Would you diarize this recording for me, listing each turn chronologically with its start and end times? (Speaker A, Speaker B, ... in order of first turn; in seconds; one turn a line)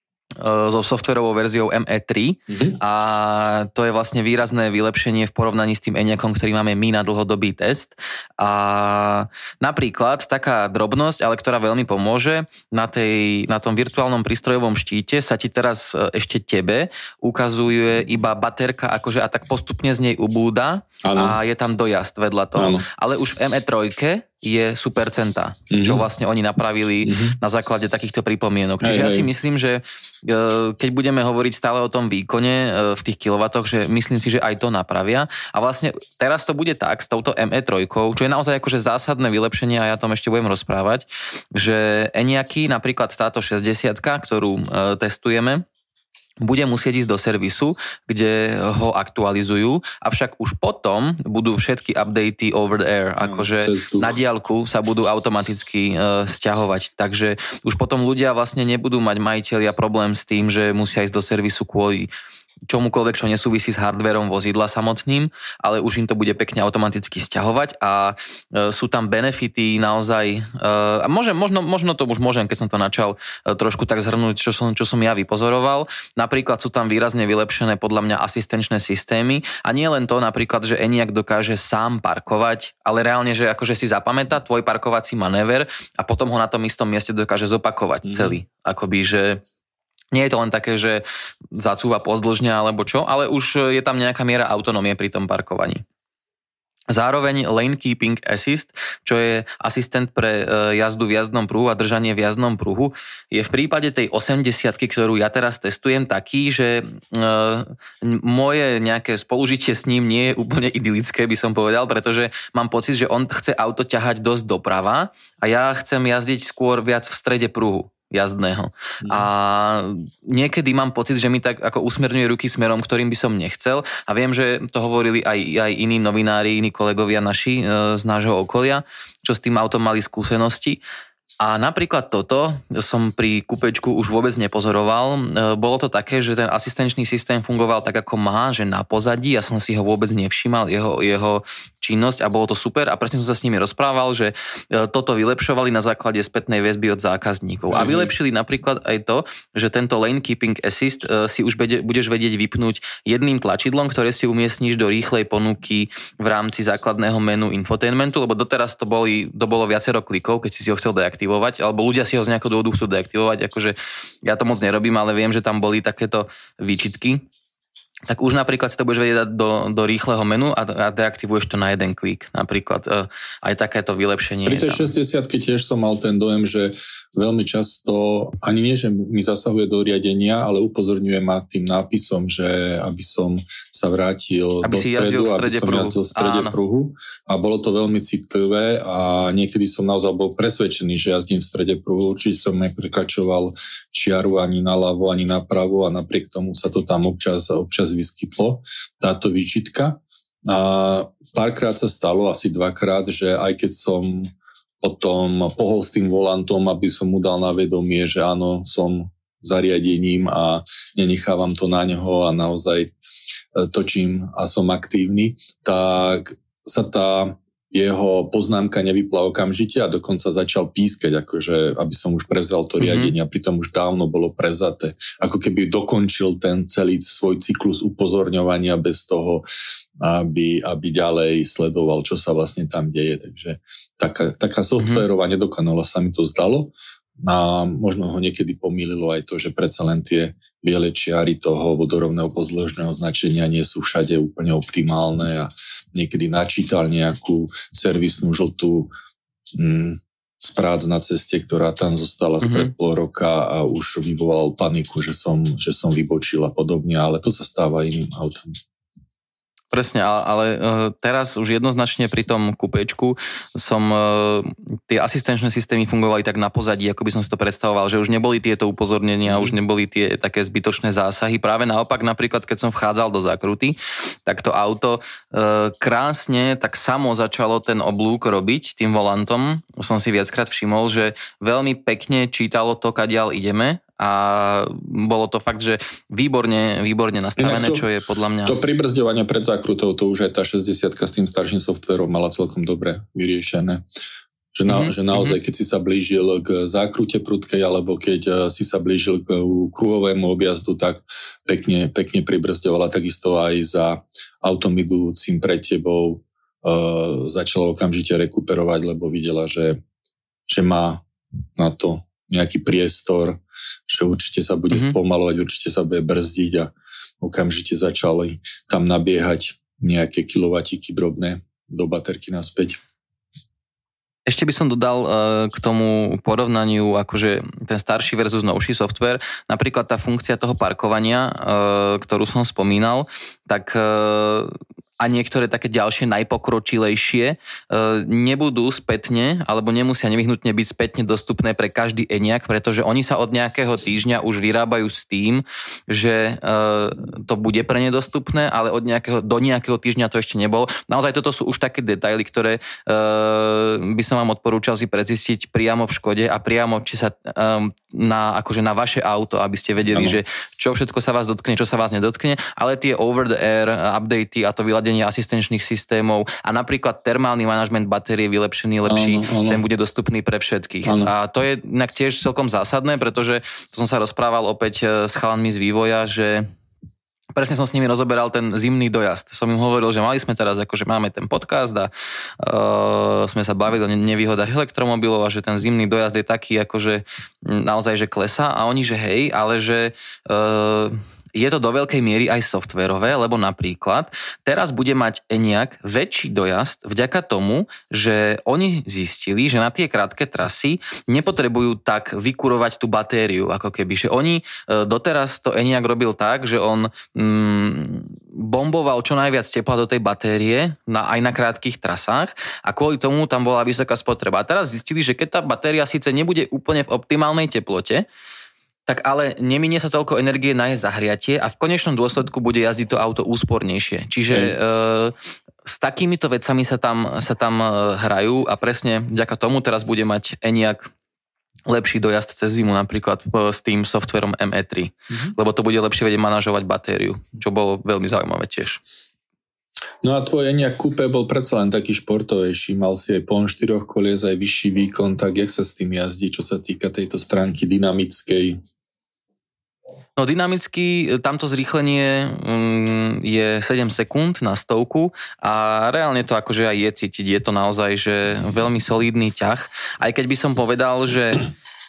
Speaker A: 0.4-45.6
Speaker B: 2.5-2.8
Speaker B: 21.0-21.4
Speaker B: 22.5-22.8
Speaker B: 25.7-26.0
Speaker B: 27.0-27.4
Speaker B: 28.8-29.3
Speaker A: 46.4-62.1
Speaker B: 53.2-54.2
Speaker A: 62.7-89.4
Speaker B: 88.0-88.3
Speaker A: 90.1-91.0
Speaker A: 91.5-95.8
Speaker A: 96.9-130.8
Speaker B: 119.0-119.3
Speaker A: 131.4-167.2
Speaker B: 147.7-148.1
Speaker A: 168.1-174.9
Speaker B: 174.4-212.9
Speaker A: 184.6-186.6
Speaker B: 213.5-229.4
Speaker A: 222.8-223.1
Speaker B: 230.0-248.9
Speaker A: 234.8-235.0
Speaker B: 249.5-258.5
Speaker A: 252.4-252.7
Speaker A: 259.7-288.7
Speaker B: 269.2-269.6
Speaker B: 287.4-287.9
Speaker B: 288.4-293.9
Speaker B: 294.5-309.8
Speaker A: 294.7-295.4
Speaker B: 310.5-311.0
Speaker B: 311.6-322.8
Speaker A: 324.2-376.5
Speaker B: 359.9-360.2
Speaker B: 368.9-369.6
Speaker B: 370.9-371.1
Speaker A: 377.3-418.0
Speaker A: 418.9-430.9
Speaker B: 424.3-424.6
Speaker A: 431.6-438.8
Speaker B: 440.0-448.6
Speaker A: 450.2-461.5